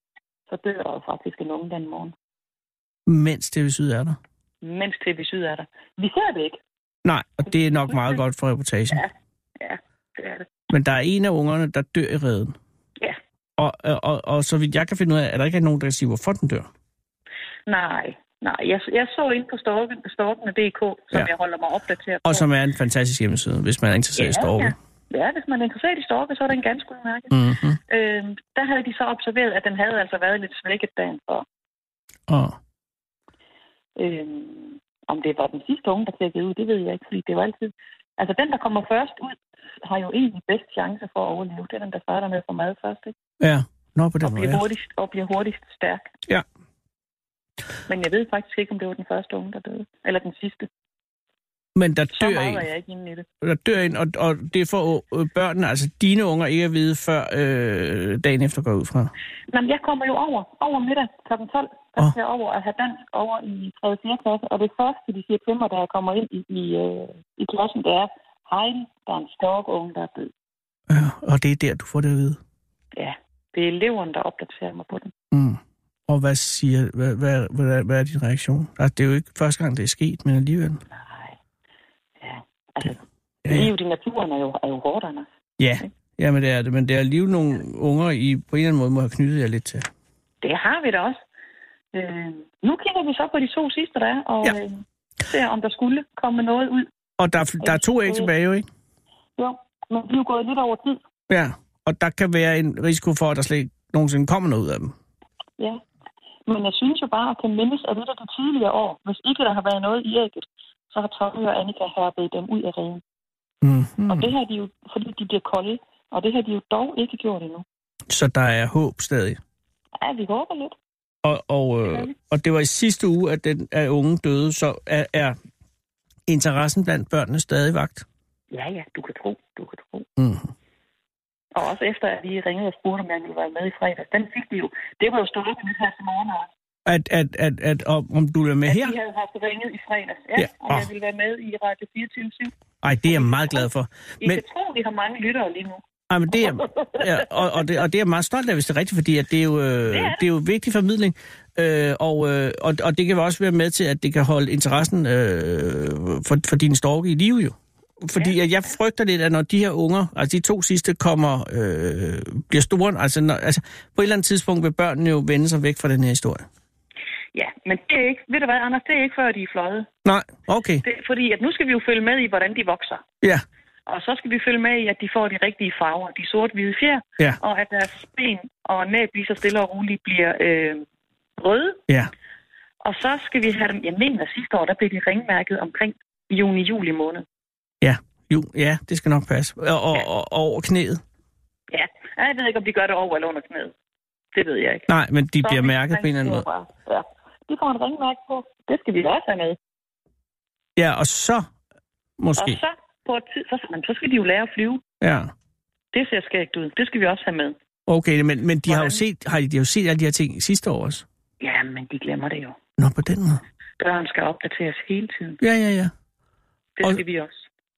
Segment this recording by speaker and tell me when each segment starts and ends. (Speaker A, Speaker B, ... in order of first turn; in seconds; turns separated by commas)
Speaker A: 0.5-2.1, Speaker B: 3.1-4.2, Speaker A: 4.6-6.6, Speaker B: 7.0-9.0, Speaker A: 7.5-8.2, Speaker A: 9.6-10.5, Speaker B: 10.7-12.6, Speaker B: 13.6-16.7, Speaker A: 17.7-22.4, Speaker B: 22.2-24.7, Speaker A: 24.2-27.3, Speaker B: 27.3-27.8, Speaker A: 27.9-31.4, Speaker B: 32.3-32.5, Speaker A: 34.0-43.1, Speaker B: 43.4-44.6, Speaker A: 44.2-46.1, Speaker A: 47.9-50.7, Speaker B: 51.8-52.6, Speaker A: 52.1-53.2, Speaker B: 53.4-59.1, Speaker A: 59.5-70.3, Speaker B: 70.9-72.4, Speaker A: 73.0-75.1, Speaker B: 75.3-80.8, Speaker A: 80.9-81.3, Speaker A: 82.2-85.3, Speaker B: 83.5-83.7, Speaker B: 85.6-89.8, Speaker A: 90.4-91.2, Speaker A: 91.9-96.9, Speaker B: 97.2-98.7, Speaker A: 97.6-98.3, Speaker A: 99.4-101.0, Speaker B: 101.3-104.9, Speaker A: 106.5-113.0, Speaker B: 113.6-114.3, Speaker A: 114.1-117.6, Speaker B: 118.1-119.4, Speaker A: 120.0-120.8, Speaker B: 121.2-125.3, Speaker A: 121.8-122.1, Speaker B: 126.3-128.0, Speaker A: 128.5-130.1, Speaker B: 130.2-130.5, Speaker A: 131.5-136.5, Speaker B: 136.8-138.9, Speaker A: 138.7-142.5, Speaker B: 140.4-140.9, Speaker B: 142.8-144.4, Speaker A: 143.1-143.7, Speaker A: 144.2-147.6, Speaker B: 146.1-166.4, Speaker A: 149.9-150.2, Speaker A: 167.3-169.9, Speaker B: 170.0-170.8, Speaker A: 170.8-173.0, Speaker A: 173.9-180.8, Speaker A: 181.4-181.8, Speaker A: 182.8-187.2, Speaker B: 187.8-191.0, Speaker A: 191.7-193.7, Speaker A: 194.3-194.9, Speaker B: 194.9-196.4, Speaker A: 195.4-199.6, Speaker B: 200.8-201.4, Speaker B: 202.2-202.6, Speaker A: 202.4-204.8, Speaker B: 205.0-205.3, Speaker A: 205.9-207.6, Speaker B: 207.9-211.0, Speaker A: 208.7-209.0, Speaker A: 211.4-212.6, Speaker B: 212.8-213.4, Speaker A: 213.8-215.4, Speaker B: 215.4-215.9, Speaker A: 216.8-217.5